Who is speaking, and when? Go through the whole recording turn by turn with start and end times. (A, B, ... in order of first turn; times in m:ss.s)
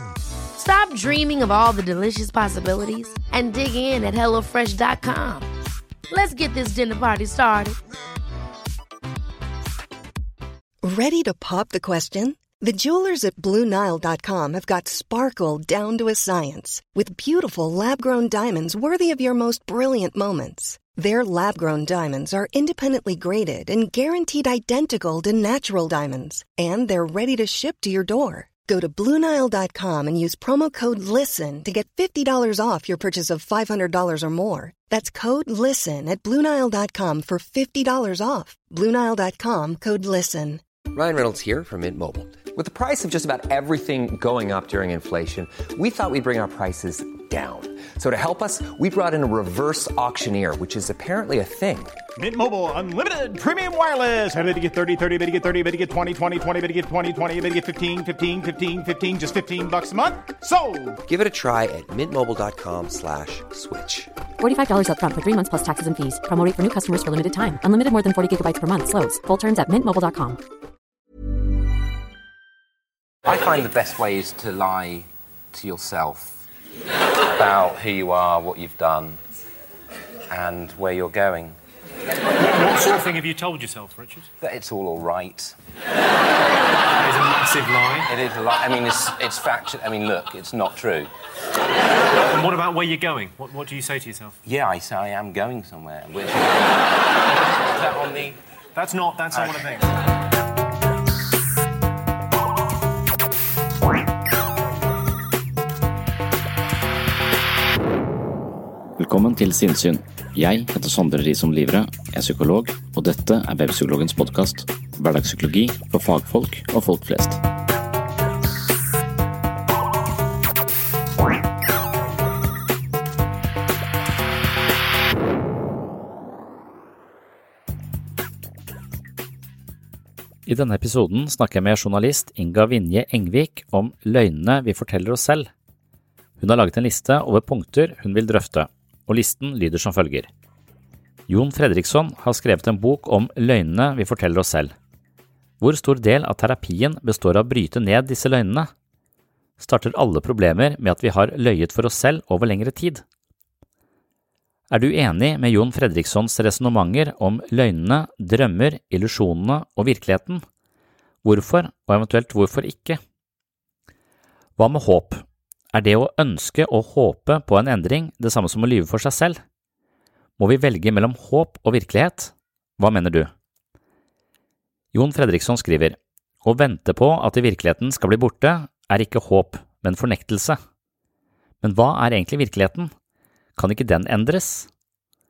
0:00.6-0:05.5 A
0:06.1-0:07.8 A
0:10.8-0:40.6 B
0:40.9-0:52.0 C
0:52.2-1:01.0 D
1:01.1-1:04.1 C
1:04.4-1:10.4 E
1:13.2-1:16.4 F
1:17.3-1:19.2 F
1:20.3-1:21.6 F
1:22.4-1:24.3 G
1:24.4-1:25.6 F
1:27.0-1:28.1 G
1:28.1-1:31.1 F
1:32.3-1:34.4 G
1:34.4-1:36.9 F
1:37.8-1:38.4 F
1:38.8-1:39.9 G
1:49.0-1:57.4 H
2:10.5-2:15.5 H
2:16.4-2:20.3 H
2:21.3-2:24.7 H
2:25.6-2:28.7 H
2:29.6-2:33.0 H
2:34.7-2:40.4 H
2:41.2-2:43.0 H
2:44.6-2:49.4 H
2:50.4-2:53.3 H
2:54.9-3:00.6 H
3:01.6-3:02.9 H
3:03.6-3:04.7 H